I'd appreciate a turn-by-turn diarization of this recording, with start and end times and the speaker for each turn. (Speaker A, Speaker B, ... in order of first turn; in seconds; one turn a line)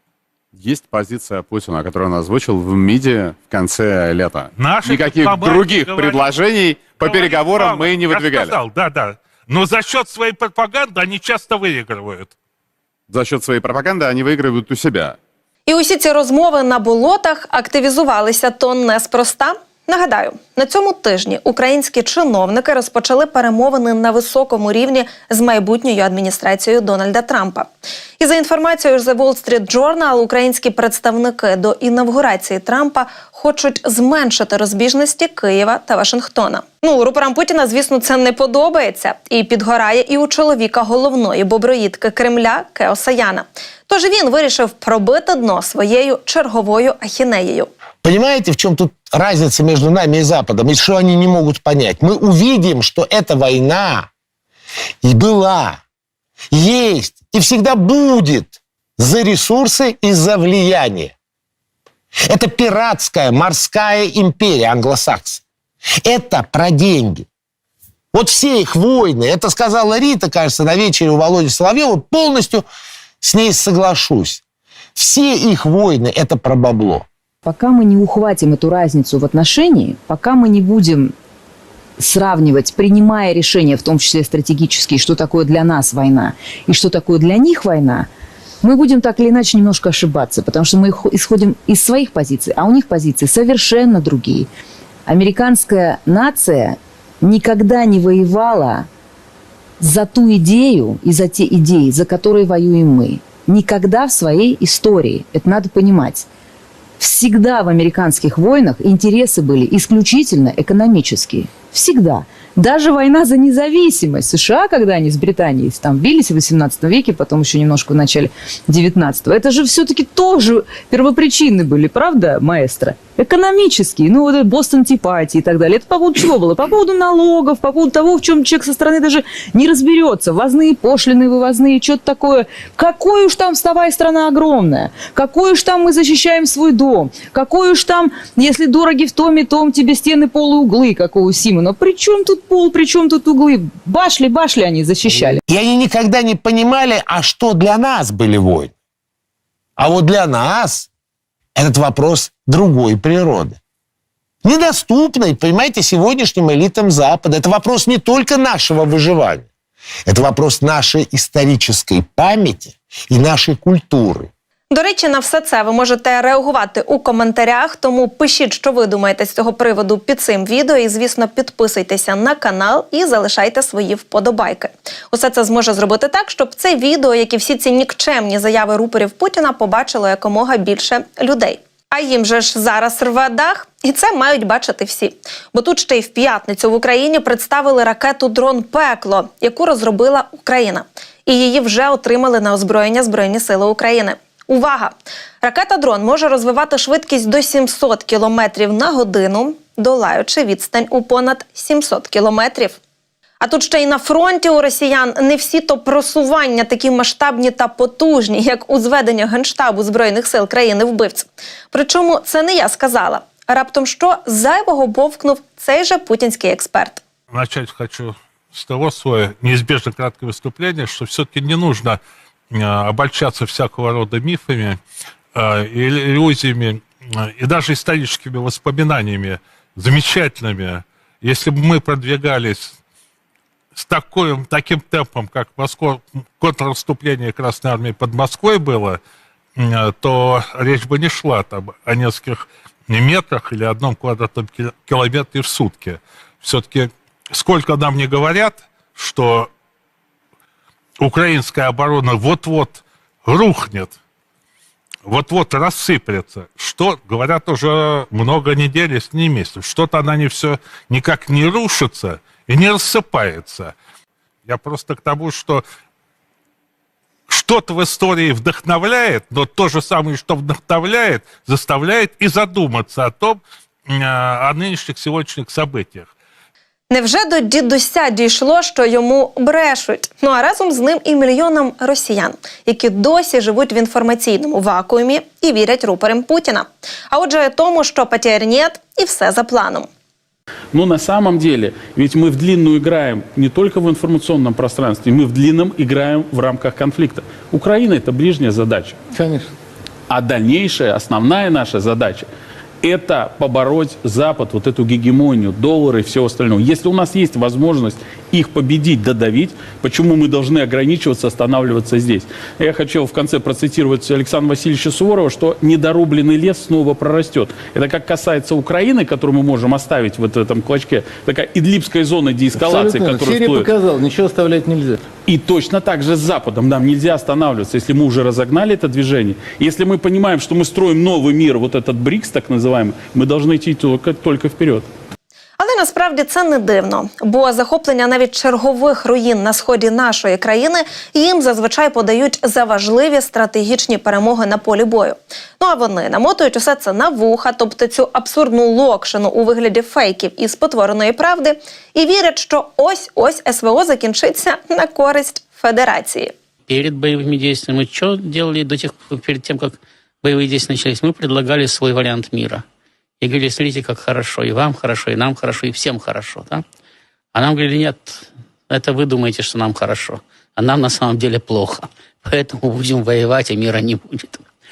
Speaker A: 0.6-8.6
Speaker B: 4.5-12.3
Speaker A: 13.1-15.2
Speaker C: 15.7-47.7
Speaker D: 48.0-54.1
Speaker D: 55.0-55.8
Speaker D: 56.5-61.1
Speaker D: 62.3-65.4
Speaker D: 66.0-67.3
Speaker D: 68.1-72.7
Speaker D: 73.2-74.4
Speaker D: 75.0-77.0
Speaker E: 77.4-81.1
Speaker E: 82.0-88.1
Speaker E: 88.6-94.5
Speaker E: 95.1-98.9
Speaker E: 99.8-106.3
Speaker E: 107.0-145.4
Speaker D: 145.5-148.7
Speaker D: 149.8-150.9
Speaker D: 151.5-153.6
Speaker D: 154.4-159.4
Speaker D: 160.1-164.3
Speaker C: 164.7-202.8
Speaker C: 203.4-217.0
Speaker B: 217.3-222.0
Speaker B: 222.5-224.8
Speaker B: 225.3-232.7
Speaker B: 233.7-239.0
Speaker B: 239.6-249.5
Speaker B: 251.0-253.9
Speaker B: 255.1-263.7
Speaker B: 264.4-265.6
Speaker B: 267.3-276.1
Speaker C: 276.9-289.9
Speaker F: 290.7-299.0
Speaker G: 299.1-299.5
Speaker F: 300.1-302.3
Speaker F: 302.8-323.7
Speaker G: 322.5-325.0
Speaker F: 325.3-334.9
Speaker C: 335.6-356.3
Speaker H: 356.7-362.6
Speaker H: 363.2-366.6
Speaker H: 367.3-374.4